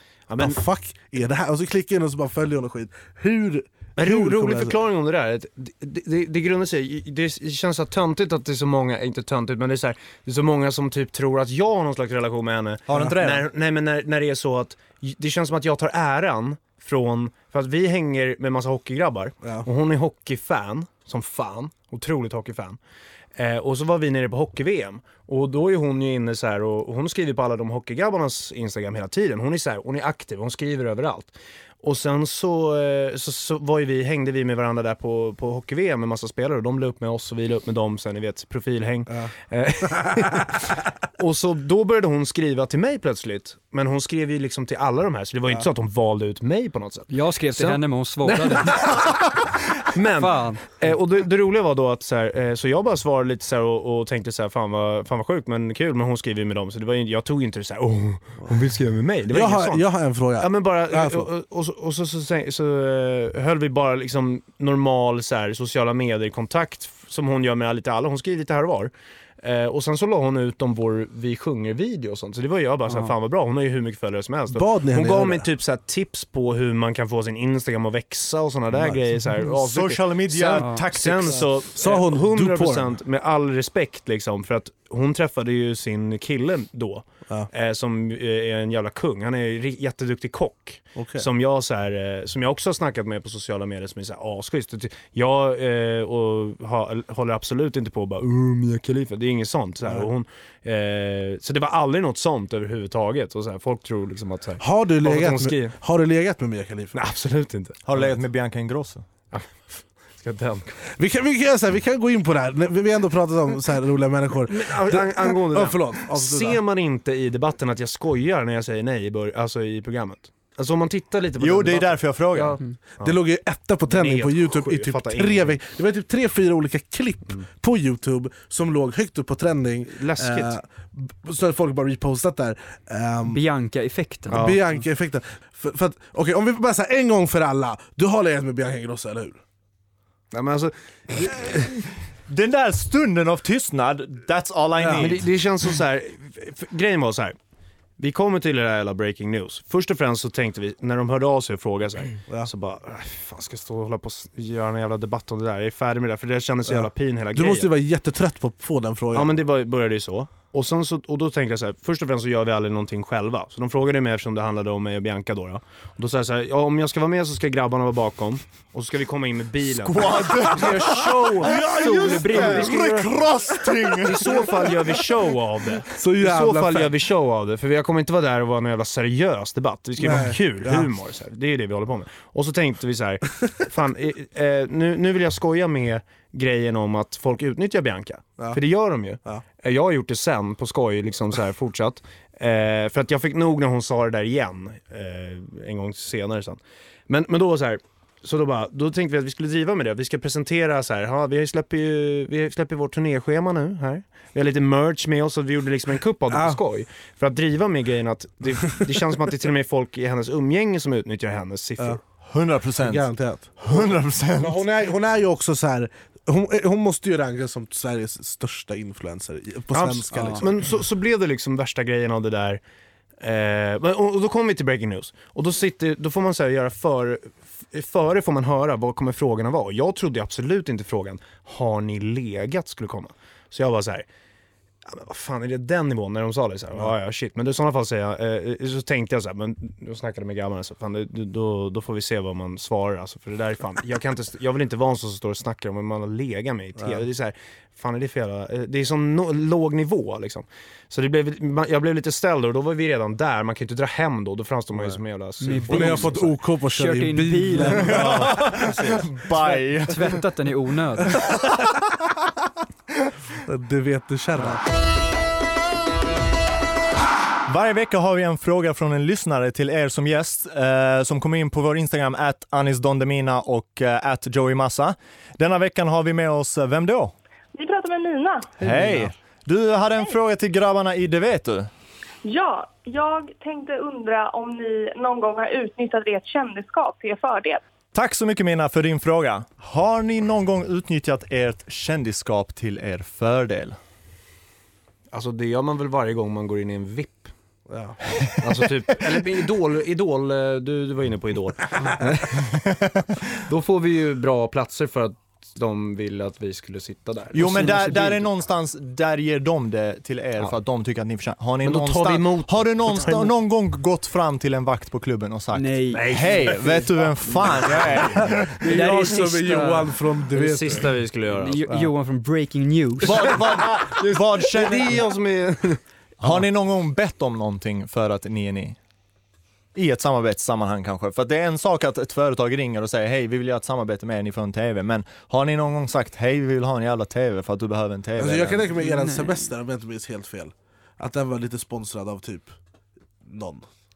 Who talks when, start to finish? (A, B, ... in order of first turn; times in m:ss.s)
0:00.3-0:00.6 A
0:00.4-0:04.7 B
0:04.0-0:22.8 A
0:12.9-0:13.4 C
0:19.4-0:19.7 B
0:23.4-0:59.8 A
0:39.9-0:40.5 B
0:47.1-0:49.1 D
0:50.2-0:50.7 D
0:59.3-1:01.3 B
1:00.4-1:45.7 A
1:14.5-1:15.5 B
1:18.7-1:19.3 B
1:19.5-1:21.4 C
1:21.2-1:23.0 B
1:31.0-1:31.3 B
1:44.6-1:46.9 B
1:46.9-1:48.2 A
1:47.8-1:49.0 C
1:49.3-1:50.7 A
1:51.0-1:56.6 B
1:54.5-2:03.2 A
2:01.4-2:02.6 C
2:03.0-2:13.4 B
2:03.9-2:05.6 A
2:10.0-2:10.6 A
2:13.3-2:14.4 D
2:14.3-2:14.7 A
2:14.3-2:19.4 B
2:20.3-2:21.5 A
2:21.2-2:21.7 C
2:22.3-2:25.3 C
2:24.8-2:25.2 B
2:25.0-2:27.4 A
2:28.0-2:37.7 A
2:36.7-2:39.4 B
2:39.1-2:53.1 A
2:49.6-2:54.7 C
2:51.7-2:52.9 D
2:54.0-3:32.0 A
2:55.8-2:56.9 B
3:00.0-3:00.9 B
3:26.3-3:26.6 B
3:32.2-3:34.6 C
3:32.8-3:40.6 B
3:39.7-3:42.6 A
3:40.1-3:40.4 D
3:43.2-3:54.1 A
3:54.8-4:16.2 A
4:15.4-4:18.0 D
4:15.7-4:18.6 B
4:17.8-4:19.1 A
4:17.8-4:20.2 C
4:19.4-4:21.2 D
4:21.1-4:21.8 C
4:23.4-4:24.6 B
4:27.5-4:37.1 C
4:37.5-4:38.5 E
4:38.6-4:41.7 C
4:42.2-4:47.6 E
4:47.9-4:53.8 C
4:55.1-4:57.3 A
4:57.7-4:58.0 B
4:58.4-5:02.4 A
5:02.5-5:03.0 C
5:03.3-5:08.2 A
5:07.3-5:18.6 C
5:07.5-5:08.0 D
5:11.6-5:13.3 A
5:15.5-5:16.0 D
5:15.9-5:18.2 A
5:18.3-5:20.9 B
5:18.6-5:19.9 D
5:20.3-5:21.6 A
5:21.3-5:23.3 D
5:23.0-5:25.1 C
5:23.3-5:25.8 A
5:26.2-5:28.8 C
5:29.7-5:38.7 C
5:38.2-5:42.5 B
5:38.8-5:39.4 D
5:43.2-5:43.6 B